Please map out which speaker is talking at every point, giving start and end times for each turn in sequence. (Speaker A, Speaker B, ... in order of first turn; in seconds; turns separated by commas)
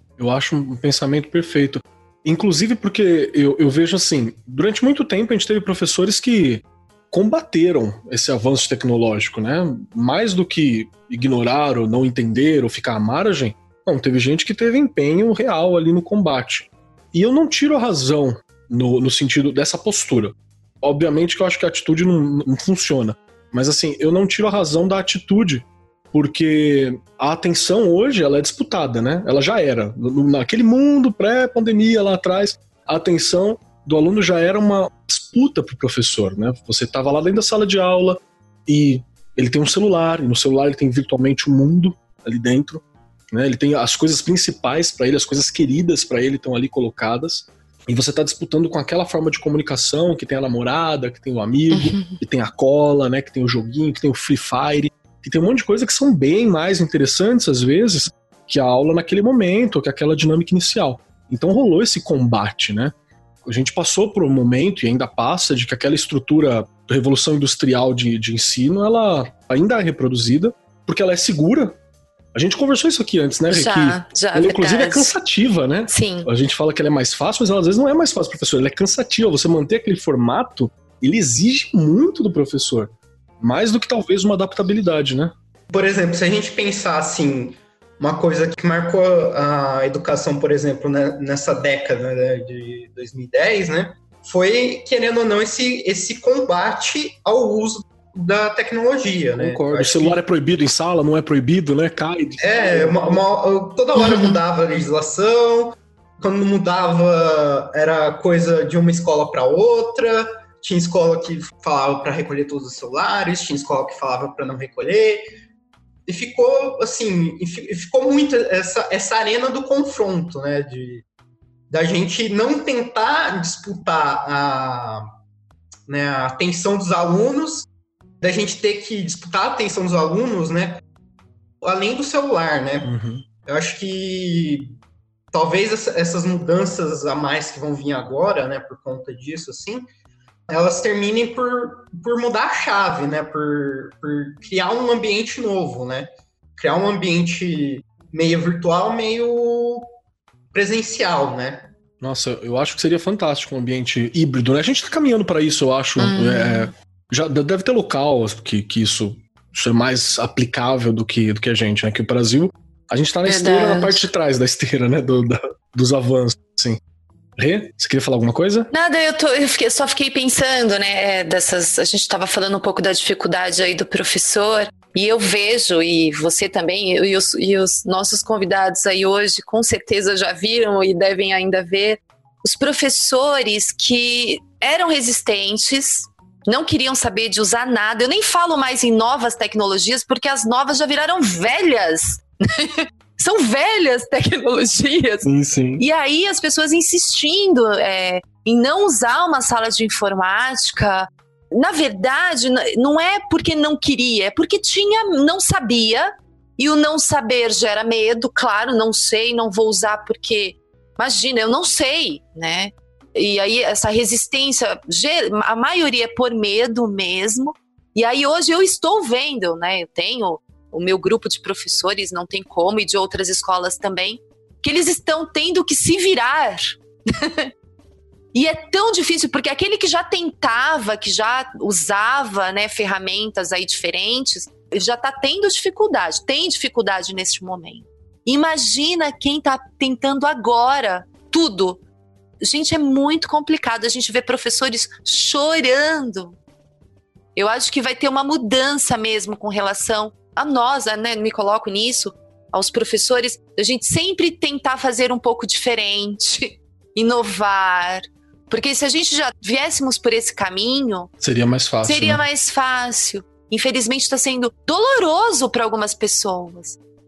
Speaker A: 0.2-62.9, Speaker B: 51.7-52.2, Speaker A: 63.4-71.8, Speaker A: 72.3-85.3, Speaker B: 73.5-75.1, Speaker B: 75.9-76.3, Speaker C: 85.7-100.2, Speaker A: 99.4-103.2, Speaker C: 102.4-115.2, Speaker B: 104.0-104.4, Speaker C: 116.1-121.0, Speaker C: 121.7-125.1, Speaker C: 125.9-127.7, Speaker C: 128.2-130.8, Speaker C: 131.6-132.9, Speaker A: 132.8-133.2, Speaker C: 133.4-134.7, Speaker C: 135.3-139.9, Speaker C: 140.5-149.9, Speaker C: 150.5-151.7, Speaker A: 152.0-166.8, Speaker B: 156.0-156.7, Speaker B: 163.2-164.1, Speaker A: 167.4-168.7, Speaker B: 168.7-227.5, Speaker A: 195.2-195.8, Speaker B: 228.3-241.8, Speaker B: 242.4-246.4, Speaker B: 247.4-261.1, Speaker A: 261.2-262.2, Speaker B: 261.8-266.8